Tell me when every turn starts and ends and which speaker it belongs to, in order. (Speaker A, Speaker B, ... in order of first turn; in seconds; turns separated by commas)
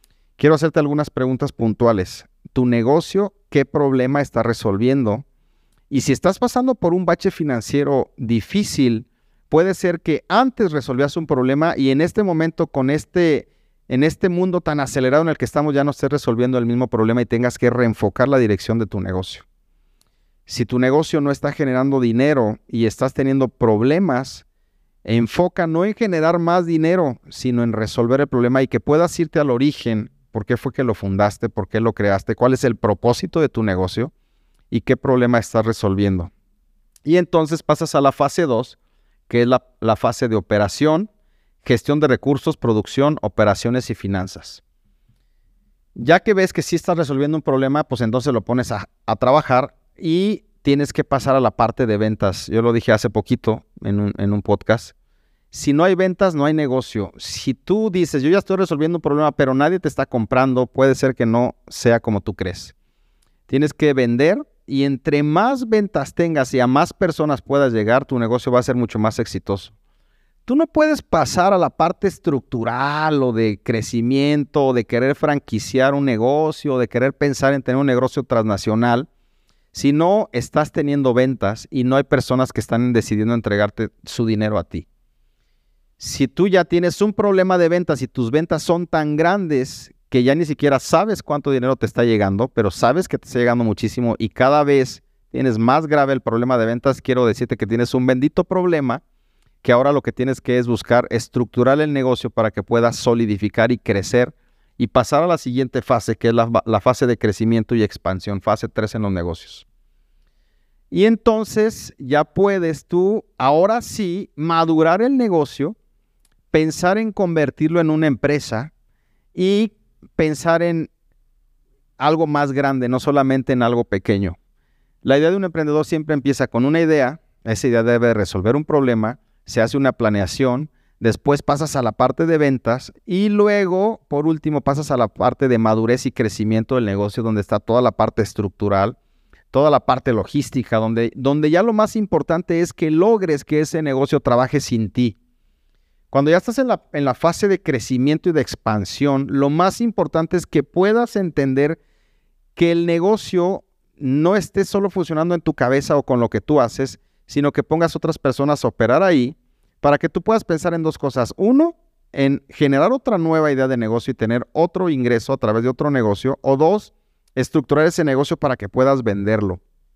Speaker A: 0.4-5.2, Speaker A: 5.9-19.4, Speaker A: 20.5-24.4, Speaker A: 25.0-34.1, Speaker A: 34.7-36.3, Speaker A: 37.0-38.8, Speaker A: 39.3-41.1, Speaker A: 41.6-44.6, Speaker A: 46.0-54.9, Speaker A: 55.5-62.7, Speaker A: 63.5-69.7, Speaker A: 70.5-79.1, Speaker A: 79.7-84.8, Speaker A: 86.0-99.0, Speaker A: 99.6-109.6, Speaker A: 110.9-115.7, Speaker A: 116.5-118.7, Speaker A: 119.3-120.9, Speaker A: 122.0-124.4, Speaker A: 125.0-138.9, Speaker A: 139.5-145.2, Speaker A: 146.1-151.8, Speaker A: 152.6-169.6